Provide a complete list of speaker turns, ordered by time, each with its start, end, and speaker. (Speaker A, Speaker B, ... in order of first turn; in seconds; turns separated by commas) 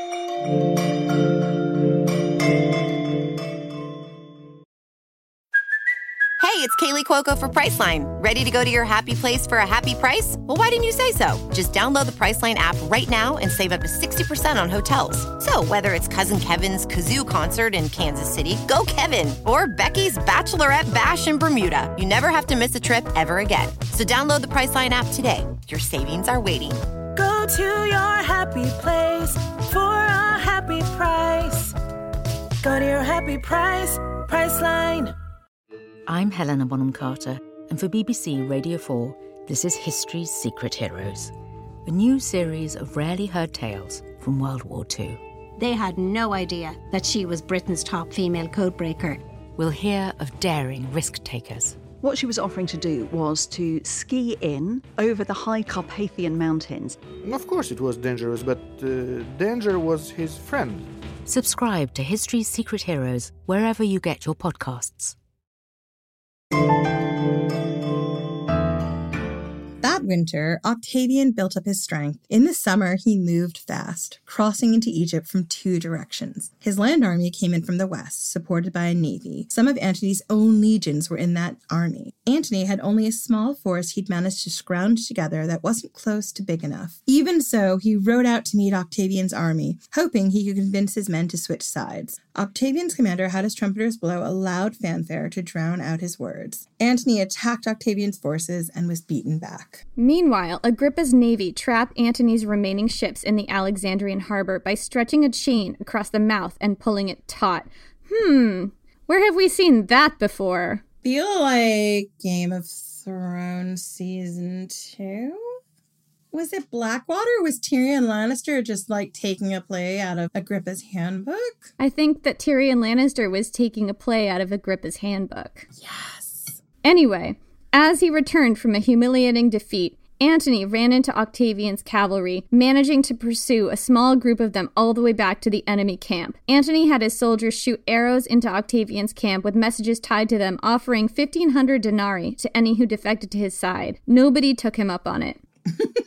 Speaker A: 6.4-26.8, Speaker B: 27.1-31.7, Speaker B: 32.6-35.1, Speaker C: 36.1-41.3, Speaker C: 41.9-45.2, Speaker D: 45.6-49.0, Speaker C: 49.6-51.9, Speaker E: 51.9-57.0, Speaker F: 57.2-60.9, Speaker C: 61.3-65.2, Speaker G: 69.8-99.8, Speaker H: 100.0-110.8, Speaker G: 111.0-115.6, Speaker G: 116.3-121.7, Speaker H: 121.8-125.7, Speaker G: 125.8-126.6, Speaker H: 126.8-145.4